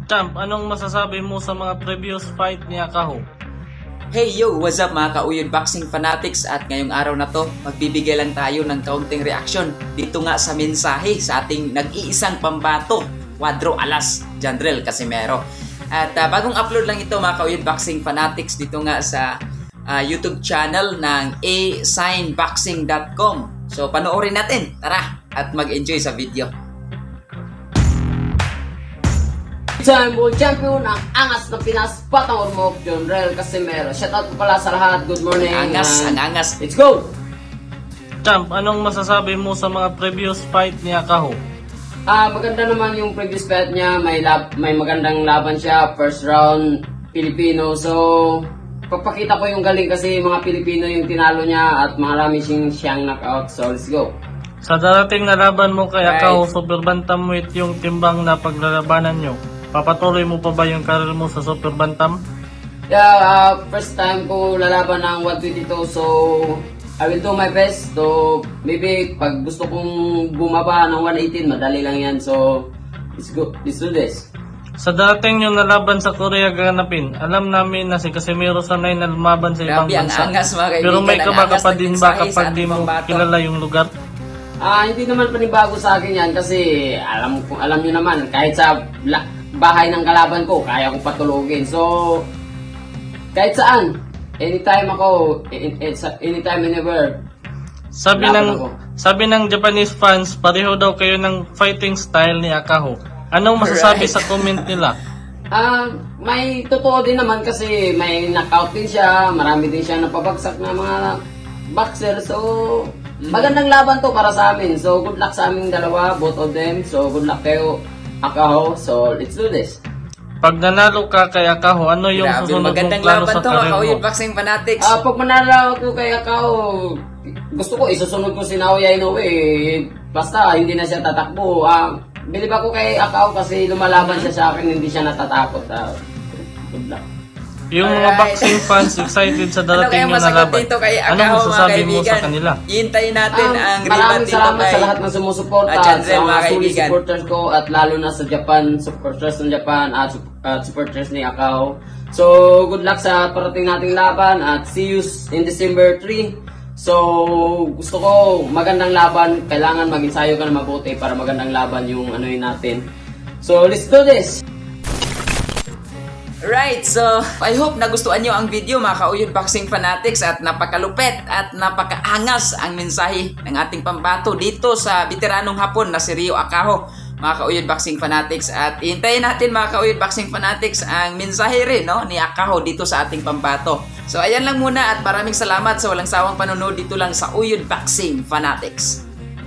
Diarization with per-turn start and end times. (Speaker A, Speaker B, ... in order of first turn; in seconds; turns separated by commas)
Speaker A: 0.1-3.2, Speaker B: 4.1-19.3, Speaker B: 19.9-26.5, Speaker C: 29.8-37.1, Speaker B: 35.3-36.5, Speaker A: 38.2-41.4, Speaker C: 42.1-54.1, Speaker A: 54.6-62.2, Speaker B: 56.0-56.4, Speaker C: 62.9-74.3, Speaker A: 74.8-83.9, Speaker B: 79.7-83.2, Speaker C: 84.6-92.2, Speaker C: 93.3-97.2, Speaker A: 97.9-105.0, Speaker C: 98.1-98.7, Speaker B: 103.6-104.7, Speaker C: 105.5-111.2, Speaker C: 111.7-119.8, Speaker B: 113.2-113.6, Speaker A: 120.4-124.0, Speaker B: 122.1-125.0, Speaker C: 124.8-137.0, Speaker B: 133.9-134.3, Speaker A: 137.7-142.6, Speaker B: 137.8-144.9, Speaker C: 143.3-162.8, Speaker B: 145.7-147.0, Speaker C: 163.4-164.4, Speaker B: 166.4-189.0